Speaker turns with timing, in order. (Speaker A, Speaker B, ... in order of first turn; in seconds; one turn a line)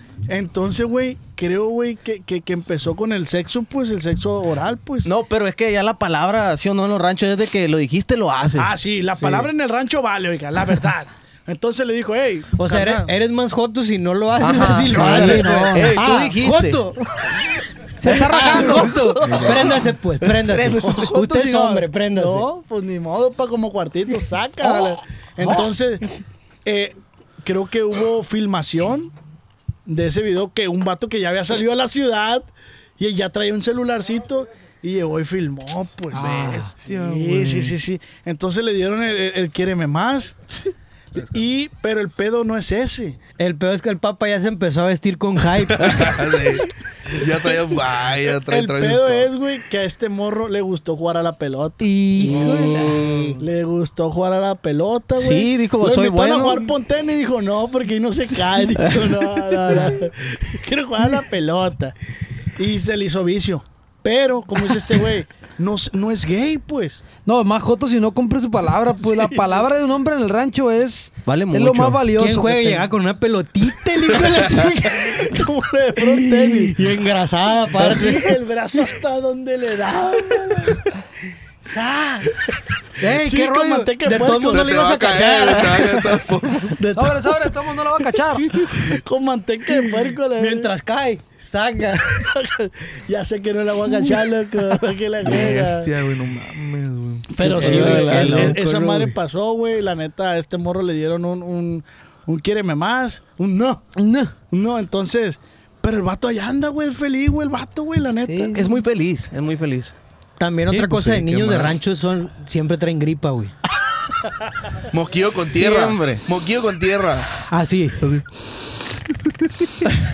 Speaker A: 0.3-5.1
Speaker B: 5.0-8.7
Speaker A: 8.6-13.1
Speaker C: 9.2-9.4
Speaker C: 12.6-17.0
Speaker B: 14.4-16.8
Speaker D: 14.6-16.0
Speaker A: 15.0-15.3
Speaker D: 18.0-19.1
Speaker C: 18.0-22.5
Speaker B: 18.6-19.6
Speaker E: 19.2-19.8
Speaker B: 20.5-21.0
Speaker A: 20.9-26.0
Speaker A: 26.6-29.1
Speaker A: 29.9-40.3
Speaker E: 36.1-37.7
Speaker D: 36.2-36.7
Speaker A: 41.2-43.2
Speaker C: 43.4-46.1
Speaker E: 45.7-49.3
Speaker A: 48.4-61.9
Speaker D: 51.8-52.9
Speaker E: 52.3-53.4
Speaker B: 55.1-56.7
Speaker B: 58.9-59.8
Speaker A: 62.5-67.0
Speaker D: 67.2-72.9
Speaker A: 69.1-69.5
Speaker B: 71.2-72.0
Speaker C: 72.1-75.2
Speaker A: 74.5-76.8
Speaker C: 76.0-78.3
Speaker A: 77.7-80.9
Speaker C: 81.6-82.3
Speaker C: 83.0-86.1
Speaker A: 83.0-84.9
Speaker E: 84.4-86.8
Speaker A: 86.7-87.5
Speaker D: 86.9-88.5
Speaker A: 88.5-90.7
Speaker C: 90.3-92.2
Speaker A: 92.1-95.9
Speaker E: 95.2-98.2
Speaker A: 97.3-103.8
Speaker C: 97.4-99.2
Speaker B: 97.6-98.6
Speaker D: 104.0-104.3
Speaker A: 104.5-108.6
Speaker D: 108.2-108.7
Speaker B: 108.5-109.9
Speaker C: 110.4-113.5
Speaker E: 110.7-111.8
Speaker E: 114.9-117.3
Speaker B: 115.5-116.2
Speaker C: 117.4-118.0
Speaker E: 118.0-118.2
Speaker E: 119.5-119.9